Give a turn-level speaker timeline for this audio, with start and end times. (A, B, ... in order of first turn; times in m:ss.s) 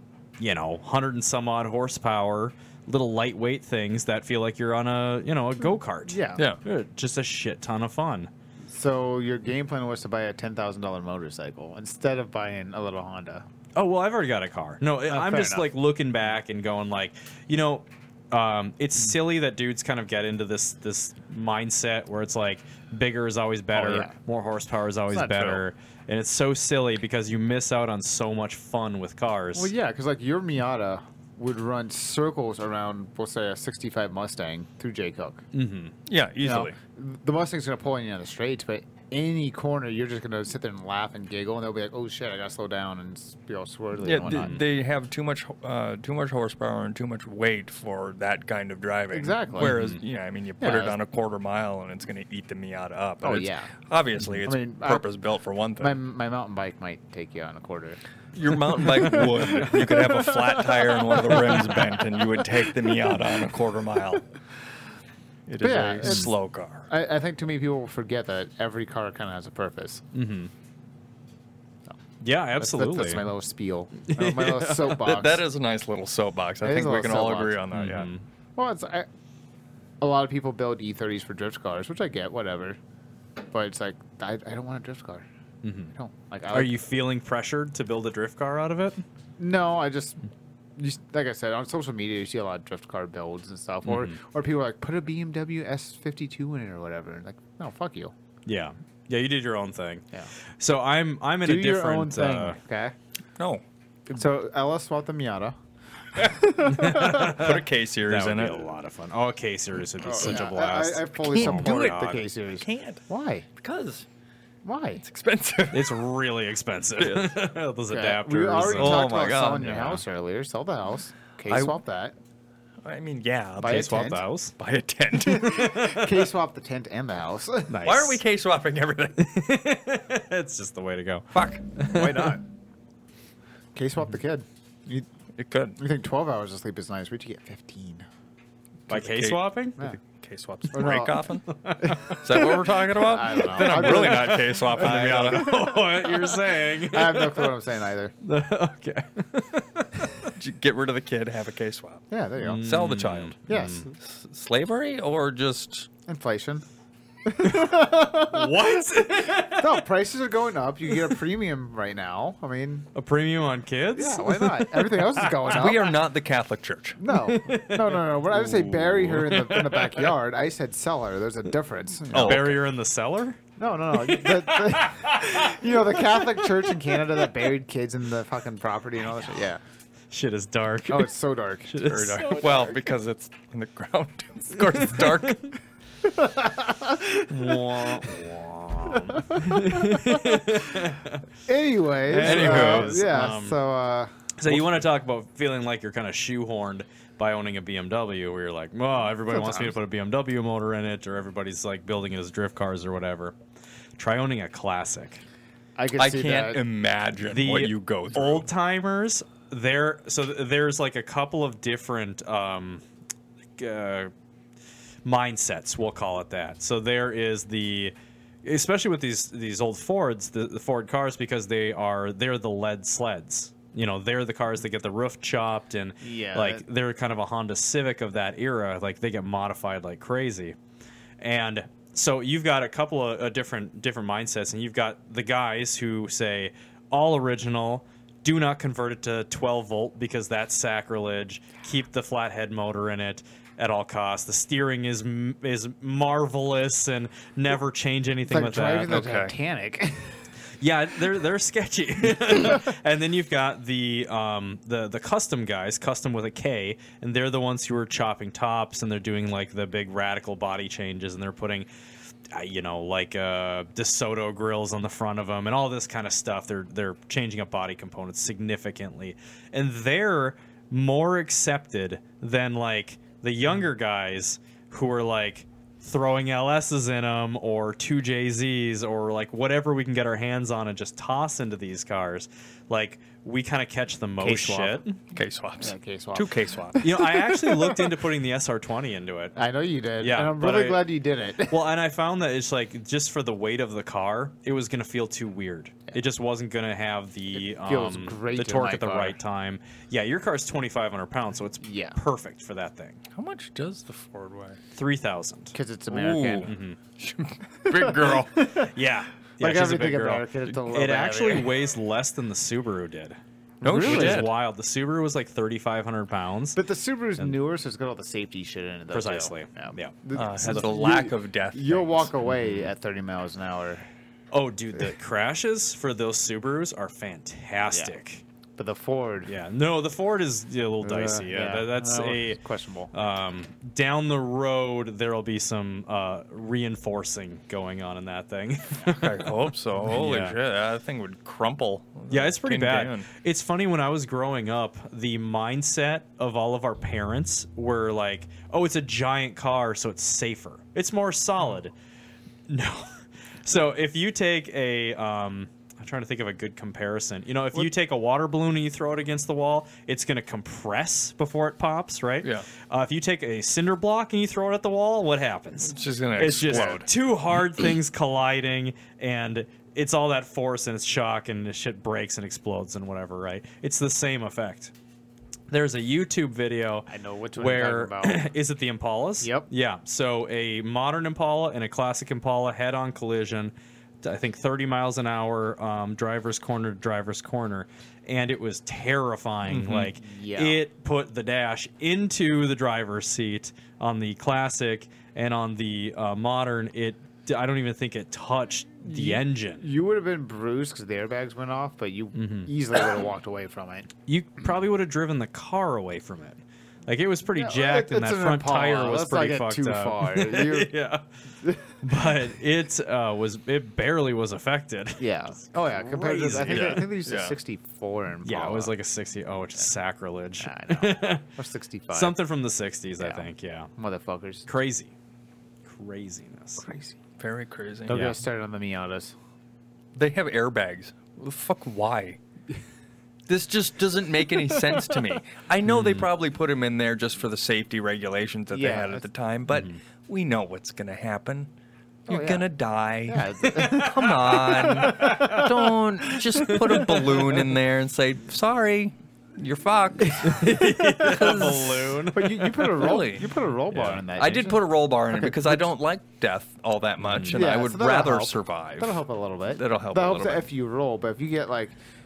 0:00.4-0:08.3 A
0:06.1-0:06.4 B
0:08.7-0:13.4 B
0:13.8-0:29.7 A
0:15.1-0:15.7 B
0:23.7-0:24.2 B
0:25.1-0:25.6 B
0:29.6-0:35.4 B
0:35.5-0:36.0 A
0:36.1-0:36.8 C
0:36.4-0:44.6 B
0:44.0-0:56.0 C
0:44.3-0:44.6 A
0:49.1-0:49.7 B
0:49.6-0:50.0 A
0:50.6-0:51.0 B
0:53.2-0:53.7 B
0:54.4-0:55.1 B
0:55.8-0:58.0 B
0:58.3-1:04.2 C
0:58.8-1:02.2 B
1:05.5-1:06.9 C
1:05.6-1:06.3 B
1:06.0-1:06.3 A
1:06.9-1:10.0 B
1:10.1-1:10.5 A
1:12.2-1:13.3 A
1:12.6-1:15.4 B
1:14.1-1:15.0 A
1:14.9-1:18.1 C
1:16.6-1:17.6 B
1:17.7-1:18.2 A
1:18.6-1:19.1 B
1:20.0-1:22.8 B
1:23.5-1:25.3 B
1:25.6-1:25.9 A
1:26.0-1:26.8 B
1:26.5-1:29.0 A
1:29.4-1:30.2 B
1:30.8-1:38.1 B
1:33.8-1:34.2 A
1:38.5-1:40.0 A
1:40.6-1:42.6 A
1:41.4-1:43.0 B
1:43.4-1:43.6 C
1:44.1-1:45.6 B
1:46.2-1:47.4 B
1:46.6-1:52.2 A
1:47.0-1:48.8 C
1:50.0-1:53.5 B
1:51.3-1:53.0 C
1:53.6-1:54.1 C
1:54.6-1:55.0 B
1:55.0-1:56.0 C
1:55.7-1:59.1 A
1:57.0-1:57.4 C
1:57.9-2:02.2 B
1:58.7-2:00.0 C
2:01.5-2:01.8 C
2:02.8-2:03.9 C
2:03.6-2:04.2 B
2:03.6-2:04.6 A
2:04.6-2:05.7 C
2:05.2-2:07.8 B
2:05.4-2:06.2 A
2:07.7-2:08.2 A
2:07.8-2:09.2 C
2:09.2-2:12.4 A
2:11.3-2:11.6 C
2:11.9-2:12.4 B
2:13.8-2:15.1 B
2:15.4-2:15.8 C
2:15.8-2:18.1 B
2:18.9-2:19.8 A
2:18.9-2:25.5 C
2:20.7-2:21.2 B
2:21.5-2:22.5 A
2:21.8-2:22.1 B
2:22.9-2:26.2 B
2:23.6-2:27.5 A
2:26.9-2:28.1 B
2:28.2-2:30.3 A
2:30.4-2:32.0 C
2:32.1-2:32.7 B
2:32.4-2:33.9 A
2:32.6-2:33.4 C
2:33.5-2:33.9 B
2:33.9-2:35.9 C
2:36.1-2:36.6 B
2:37.3-2:38.8 B
2:37.4-2:39.8 A
2:39.5-2:42.9 B
2:43.0-2:45.3 A
2:44.0-2:46.0 B
2:45.4-2:47.0 C
2:47.0-2:52.6 B
2:47.1-2:48.0 A
2:48.3-2:49.6 C
2:52.1-2:52.6 C
2:52.1-2:53.4 A
2:53.6-2:59.6 B
2:54.1-2:55.5 A
3:00.1-3:01.1 A
3:00.9-3:01.8 B
3:01.7-3:02.5 A
3:01.8-3:05.5 C
3:04.6-3:05.5 A
3:06.0-3:08.1 B
3:07.3-3:11.2 A
3:08.8-3:10.4 B
3:11.5-3:14.1 B
3:12.1-3:13.0 C
3:12.2-3:13.6 A
3:14.4-3:23.4 A
3:19.3-3:19.8 B
3:24.0-3:25.2 A
3:25.8-3:26.6 B
3:26.0-3:28.5 C
3:27.3-3:32.8 A
3:33.6-3:34.1 A
3:35.0-3:50.6 A
3:46.0-3:46.6 B
3:51.2-4:09.0 A
4:08.3-4:10.1 B
4:08.9-4:09.3 C
4:10.6-4:21.7 A
4:22.3-4:45.0 A
4:44.2-4:44.8 B
4:45.1-4:46.9 C
4:45.6-4:47.8 B
4:46.8-4:49.4 A
4:49.4-4:51.6 B
4:50.0-4:50.9 A
4:51.5-5:03.0 A
4:57.4-4:59.2 B
5:01.6-5:02.0 B
5:03.1-5:04.6 C
5:04.7-5:05.6 A
5:05.5-5:06.5 B
5:05.9-5:08.3 C
5:06.5-5:06.8 A
5:07.7-5:08.7 B
5:08.6-5:13.2 A
5:09.4-5:11.5 B
5:13.6-5:14.3 B
5:13.6-5:14.3 C
5:13.8-5:16.6 A
5:16.6-5:23.9 B
5:18.9-5:20.0 A
5:20.2-5:22.1 C
5:24.3-5:28.2 A
5:28.6-5:29.3 B
5:29.3-5:32.4 A
5:30.8-5:32.9 B
5:32.9-5:40.4 A
5:38.9-5:43.1 C
5:42.1-5:51.7 A
5:52.5-6:14.7 A
6:05.6-6:06.9 C
6:06.5-6:06.8 B
6:15.5-6:39.6 A
6:16.9-6:18.2 B
6:19.2-6:19.5 B
6:29.5-6:29.9 C
6:29.9-6:30.6 B
6:38.8-6:43.9 B
6:42.2-6:42.5 A
6:44.1-6:51.0 A
6:47.4-6:50.7 B
6:51.8-6:56.9 A
6:55.0-6:58.7 B
6:56.5-6:57.4 C
6:58.2-7:01.2 A
7:00.4-7:02.2 B
7:01.9-7:03.7 A
7:03.0-7:04.5 B
7:04.5-7:04.9 A
7:05.7-7:06.7 A
7:06.6-7:07.0 B
7:07.2-7:08.2 C
7:07.9-7:09.1 B
7:10.0-7:12.2 C
7:13.3-7:21.5 C
7:15.7-7:16.1 A
7:18.5-7:19.1 B
7:19.5-7:19.8 A
7:22.1-7:32.0 C
7:22.1-7:22.5 B
7:23.1-7:25.5 B
7:23.6-7:25.5 A
7:26.4-7:27.4 A
7:26.5-7:26.9 B
7:30.2-7:33.0 A
7:32.1-7:35.6 B
7:32.7-7:33.3 C
7:33.7-7:34.0 A
7:34.1-7:39.0 C
7:37.0-7:37.4 A
7:37.3-7:41.8 B
7:39.5-7:40.5 C